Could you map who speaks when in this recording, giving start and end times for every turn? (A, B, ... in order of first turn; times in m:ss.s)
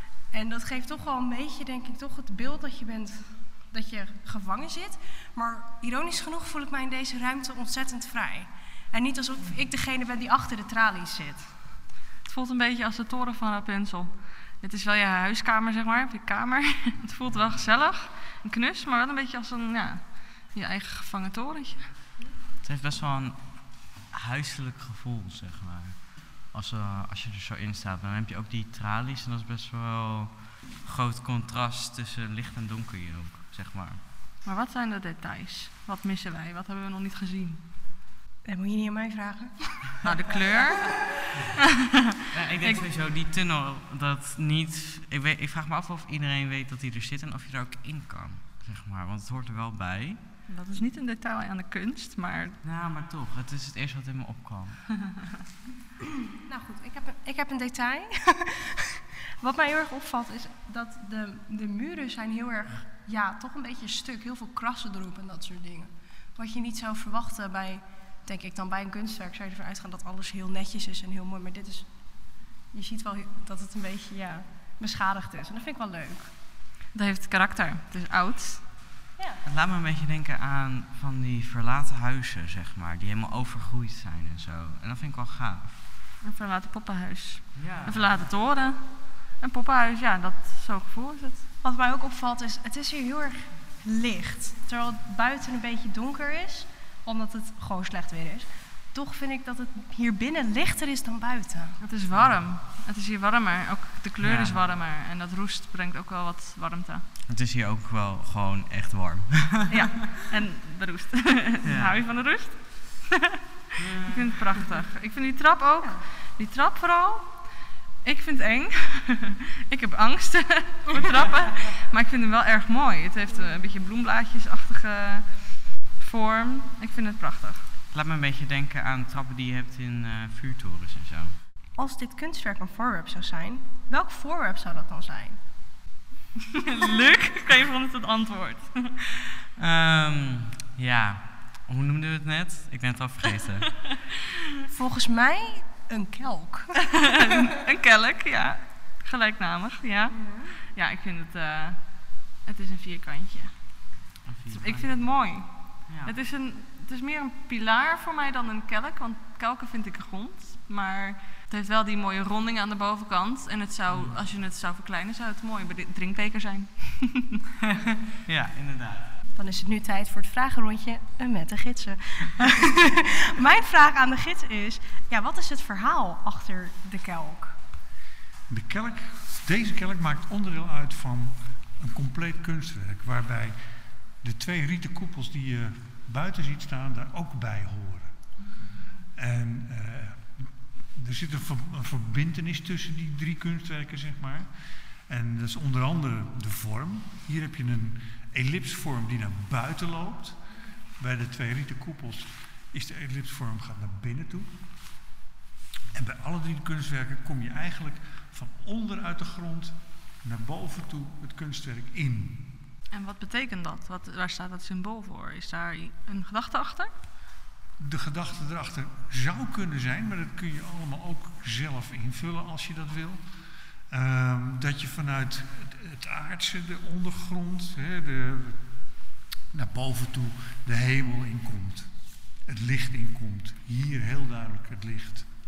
0:00.3-0:11.6 A
0:12.2-0:21.9 B
0:22.6-0:34.0 C
0:34.4-0:37.6 B
0:38.4-0:40.1 A
0:40.0-0:41.0 B
0:42.3-0:50.2 C
0:42.6-0:42.9 B
0:50.5-0:52.6 B
0:52.6-0:54.9 C
0:56.4-1:16.3 A
1:16.9-1:18.6 B
1:19.5-1:25.9 C
1:26.2-1:31.5 B
1:27.6-1:28.3 C
1:31.6-1:41.8 A
1:41.8-1:47.1 B
1:42.1-1:42.4 C
1:44.2-1:44.7 C
1:47.3-1:49.8 C
1:49.7-1:53.1 B
1:51.6-1:52.1 C
1:53.8-1:54.3 C
1:54.0-1:57.5 B
1:58.0-2:07.7 B
2:07.9-2:11.4 C
2:11.8-2:15.4 A
2:16.6-2:18.9 B
2:19.6-2:23.8 C
2:24.7-2:27.1 A
2:27.0-2:33.9 B
2:30.1-2:30.6 A
2:34.2-2:36.2 C
2:34.5-2:47.4 B
2:43.9-2:44.2 C
2:47.6-2:49.1 C
2:49.4-2:57.6 A
2:58.5-3:08.5 D
3:09.1-3:24.5 D
3:25.9-3:32.5 D
3:32.9-3:36.9 B
3:37.8-3:48.8 D
3:49.5-3:55.3 D